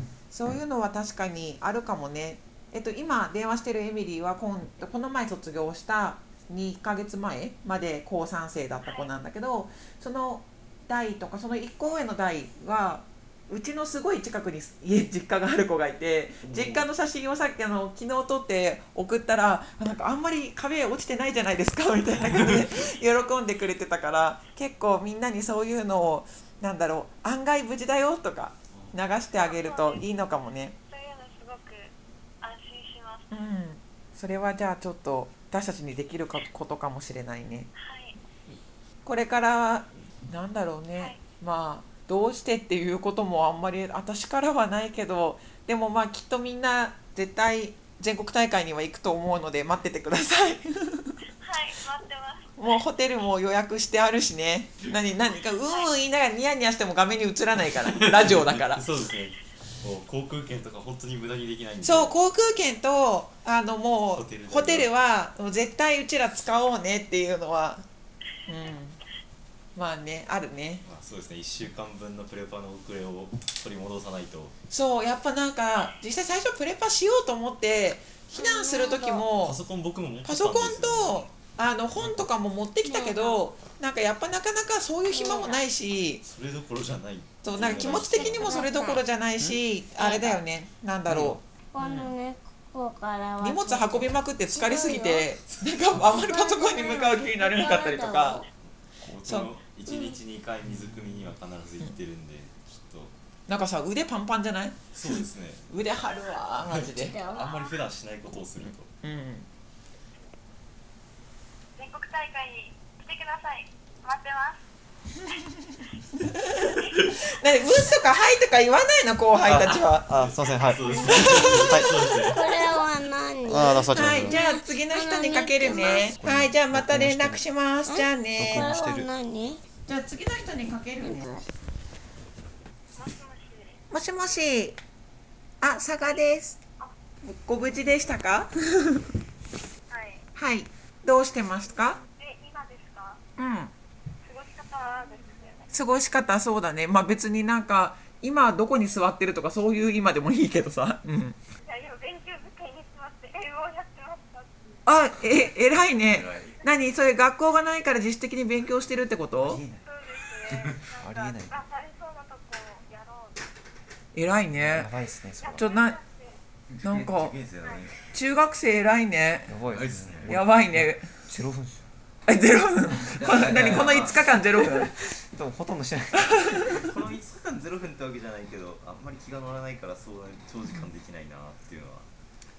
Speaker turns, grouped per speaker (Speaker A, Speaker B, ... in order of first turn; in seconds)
Speaker A: 0.3-30.7, 33.3-37.7, 39.0-51.2, 52.6-58.8, 61.8-67.8, 68.5-69.0, 69.8-70.8, 74.7-79.6, 80.2-86.2, 87.4-92.1, 93.4-98.4, 99.2-99.5, 103.5-104.8, 105.7-107.2, 109.0-109.5, 116.2-120.1, 121.0-121.7, 123.9-128.7, 129.9-131.4, 133.9-134.8, 135.6-136.6, 137.2-139.0, 140.3-142.0, 143.4-143.7, 145.7-151.4, 154.8-159.6, 164.1-164.9, 165.6-166.0, 166.8-167.3, 168.1-169.5, 170.2-171.1, 172.3-174.9, 176.2-176.8
Speaker B: 8.8-9.1, 29.3-30.0, 30.9-33.3, 37.7-38.2, 51.4-52.8, 111.8-114.6, 132.9-133.8, 139.9-140.2, 142.2-143.2, 144.2-145.7, 151.6-154.5, 159.8-163.4, 165.4-166.4
Speaker C: 16.5-16.8, 22.4-22.6, 57.9-62.1, 64.1-64.9, 70.8-74.5, 79.3-81.3, 86.2-88.6, 99.0-103.1, 104.9-105.7, 106.7-108.9, 120.0-122.7, 156.1-156.6, 166.8-168.0, 169.7-170.4, 173.2-174.2, 176.7-182.1
Speaker D: 78.4-79.2, 82.8-83.4, 85.1-85.6, 87.6-89.0, 90.0-90.4, 91.7-95.2, 96.0-98.5, 99.9-100.2, 106.8-107.7, 121.2-126.2, 127.9-129.6, 131.0-131.4
Speaker E: 91.1-91.4, 119.5-122.0, 123.5-124.4, 125.7-127.4, 128.4-129.1, 159.4-159.8, 160.7-161.5, 164.5-165.7, 169.5-171.8, 173.2-176.8